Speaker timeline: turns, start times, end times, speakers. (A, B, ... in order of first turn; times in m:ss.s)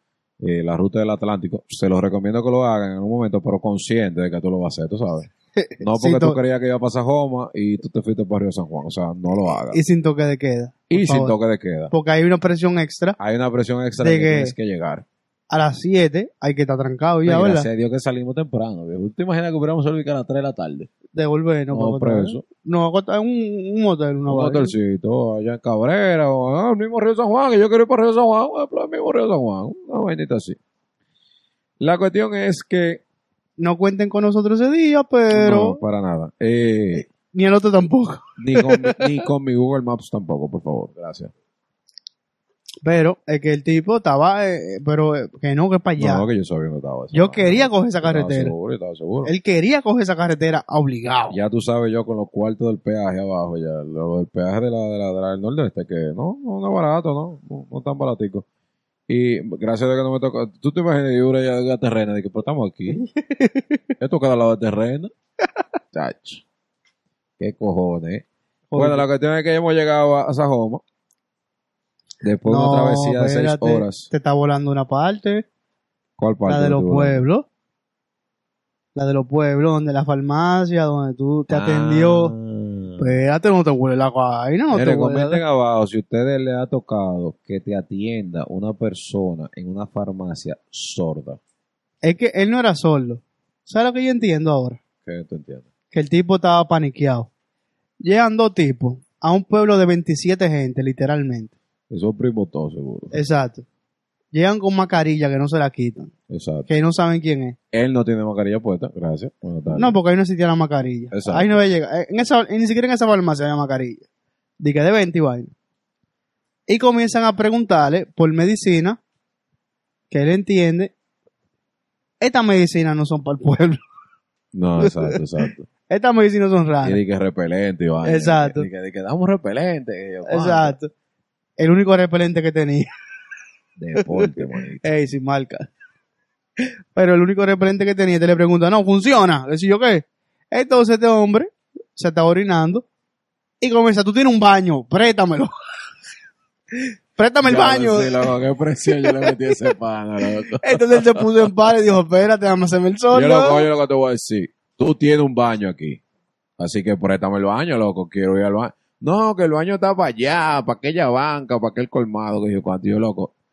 0:00.4-0:05.3 A
0:05.6-0:06.4 B
0:05.8-0:09.8 A
0:09.7-0:11.4 B
0:10.9-0:11.9 A
0:11.9-0:13.2 B
0:13.2-0:15.0 A
0:14.0-0:14.5 B
0:15.5-0:17.7 B
0:17.2-0:20.9 A
0:21.1-0:24.7 B
0:21.7-0:22.4 A
0:24.3-0:30.6 A
0:31.8-0:33.0 A
0:33.6-0:35.8 B
0:35.3-0:37.1 A
0:37.3-0:39.1 B
0:38.4-0:41.3 A
0:42.8-0:46.2 B
0:46.0-0:49.3 A
0:47.1-0:48.5 B
0:49.2-0:51.4 B
0:51.3-0:58.5 A
0:59.1-1:03.0 A
1:02.9-1:03.8 B
1:04.0-1:05.1 A
1:05.9-1:06.4 A
1:07.4-1:08.2 A
1:08.7-1:09.1 B
1:08.8-1:10.8 A
1:12.2-1:14.1 A
1:12.5-1:15.4 B
1:16.2-1:17.2 A
1:16.5-1:17.5 B
1:19.0-1:22.3 B
1:21.5-1:23.2 A
1:23.0-1:25.4 B
1:24.7-1:31.4 A
1:32.0-1:34.8 B
1:35.0-1:35.7 A
1:35.9-1:37.3 B
1:38.0-1:41.5 B
1:41.9-1:43.2 A
1:43.1-1:43.6 B
1:44.3-1:46.1 B
1:46.3-1:46.7 A
1:46.7-1:47.6 B
1:47.7-1:50.0 A
1:49.7-1:54.0 B
1:51.1-1:51.6 A
1:54.6-1:55.5 B
1:56.7-1:59.0 B
2:00.1-2:00.9 B
2:02.2-2:03.8 B
2:04.5-2:05.7 A
2:04.8-2:05.2 B
2:05.9-2:07.0 B
2:06.8-2:10.8 A
2:08.0-2:08.7 B
2:10.3-2:10.9 B
2:11.6-2:12.9 B
2:13.8-2:14.8 A
2:14.0-2:15.7 B
2:17.0-2:22.8 B
2:23.6-2:25.5 B
2:26.8-2:28.2 B
2:27.4-2:31.5 A
2:29.0-2:29.3 B
2:30.5-2:33.7 B
2:33.1-2:36.0 A
2:36.6-2:43.3 A